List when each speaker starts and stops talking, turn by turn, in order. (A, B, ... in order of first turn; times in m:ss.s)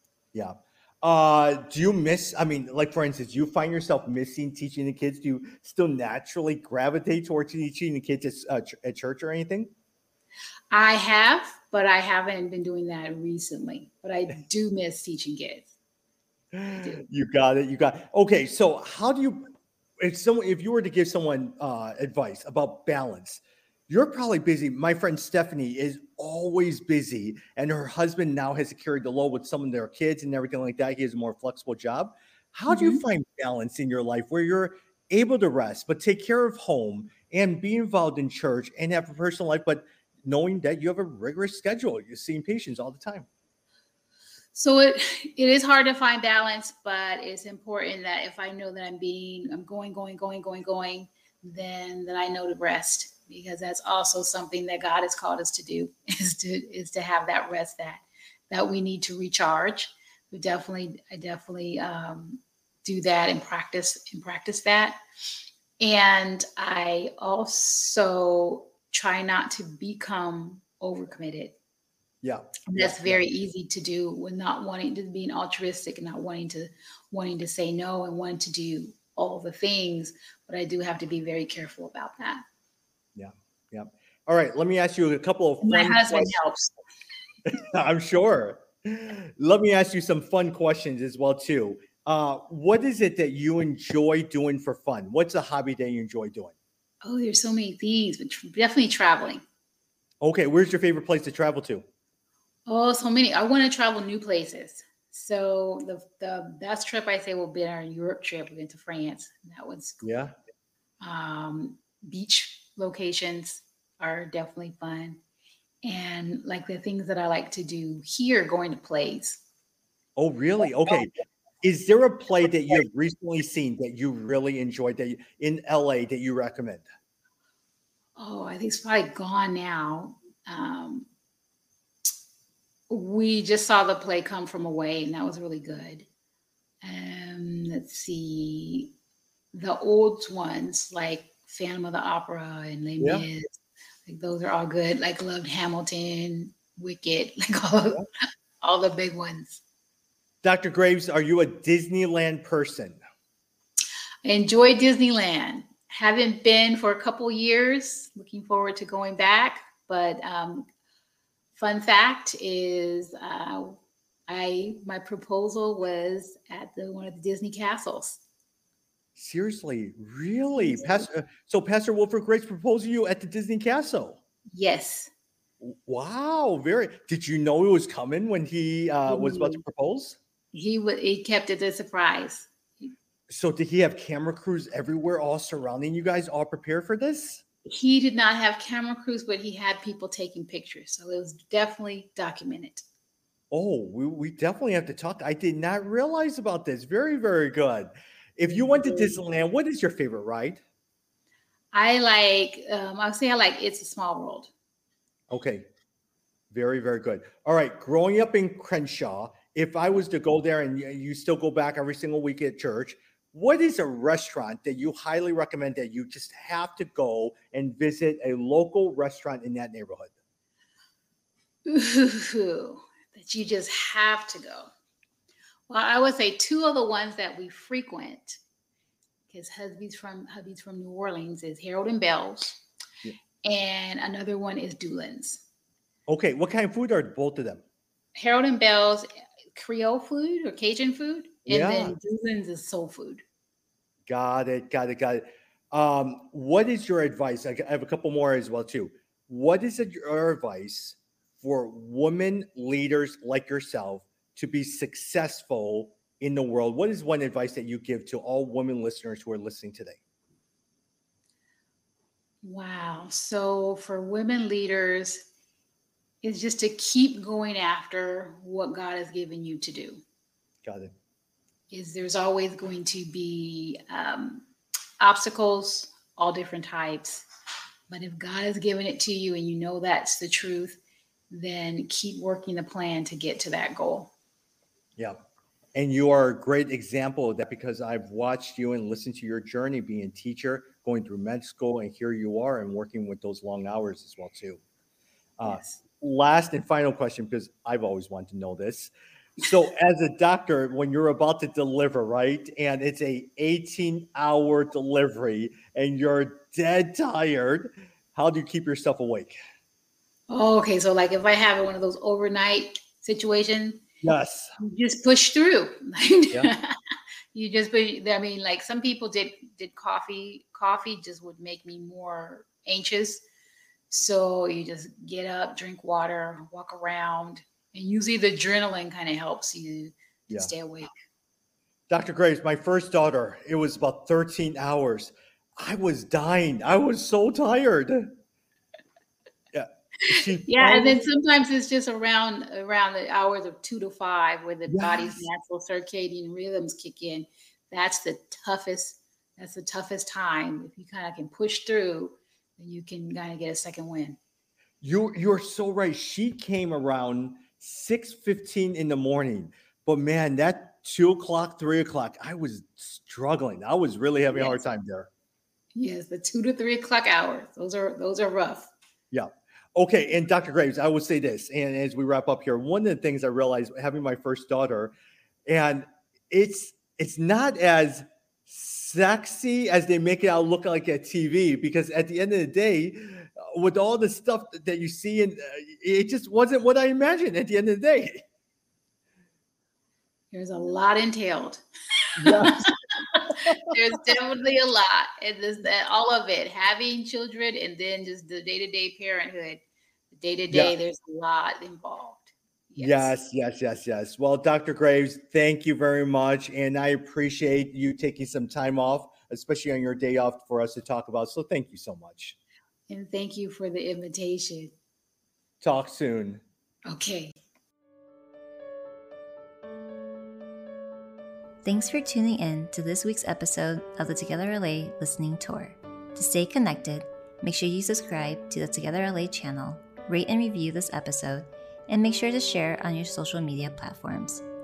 0:00.3-0:09.7 A
0:10.7-0:15.7 B
0:16.5-0:43.3 A
0:32.7-0:33.0 B
0:44.5-1:05.0 B
1:05.8-1:11.6 B
1:12.2-1:13.2 A
1:12.7-1:22.4 B
1:23.2-1:26.4 A
1:25.6-1:26.7 B
1:27.5-1:36.5 A
1:37.0-1:39.4 B
1:40.2-1:41.8 A
1:42.7-1:50.1 B
1:50.0-1:50.3 A
1:51.0-1:55.2 B
1:55.8-1:59.4 B
2:00.2-2:01.1 A
2:01.6-2:06.8 A
2:08.2-2:11.1 B
2:12.9-2:16.1 B
2:16.8-2:18.9 B
2:19.5-2:23.5 B
2:23.0-2:23.2 A
2:24.0-2:28.0 B
2:28.6-2:29.6 B
2:30.4-2:33.0 A
2:34.2-2:40.6 B
2:41.5-2:48.2 B
2:49.2-2:54.2 A
2:50.6-2:51.0 B
2:54.5-2:55.1 B
2:55.6-3:00.2 A
2:59.1-2:59.6 B
3:00.5-3:02.9 B
3:03.3-3:07.4 A
3:07.6-3:12.8 B
3:13.5-3:20.6 A
3:18.4-3:19.2 B
3:21.7-3:24.5 B
3:25.3-3:25.7 A
3:26.5-3:40.1 A
3:41.6-3:44.7 B
3:45.7-3:48.4 B
3:49.3-3:52.6 B
3:53.4-3:55.4 B
3:56.1-3:57.6 A
3:58.2-4:03.2 B
4:01.5-4:01.9 A
4:04.1-4:20.0 A
4:22.4-4:25.2 B
4:26.2-4:30.0 B
4:30.6-4:30.9 A
4:31.7-4:34.5 B
4:35.0-4:37.2 B
4:37.9-4:40.8 B
4:41.3-4:44.1 B
4:45.7-4:54.6 A
4:55.4-5:09.4 A
4:55.4-4:55.8 B
5:10.3-5:13.8 B
5:14.0-5:14.5 A
5:14.6-5:16.7 B
5:17.3-5:23.2 B
5:23.9-5:30.9 B
5:31.9-5:38.1 A
5:39.5-5:41.0 A
5:40.0-5:54.2 B
5:44.7-5:45.2 A
5:54.8-6:05.1 A
6:04.3-6:04.6 B
6:05.8-6:08.7 B
6:09.1-6:14.9 A
6:15.4-6:28.2 A
6:30.3-6:39.6 B
6:32.2-6:32.7 A
6:33.3-6:33.7 A
6:40.1-6:43.1 B
6:42.8-6:52.4 A
6:52.9-6:54.7 B
6:55.6-6:56.4 A
6:56.9-6:57.4 B
7:01.6-7:14.4 C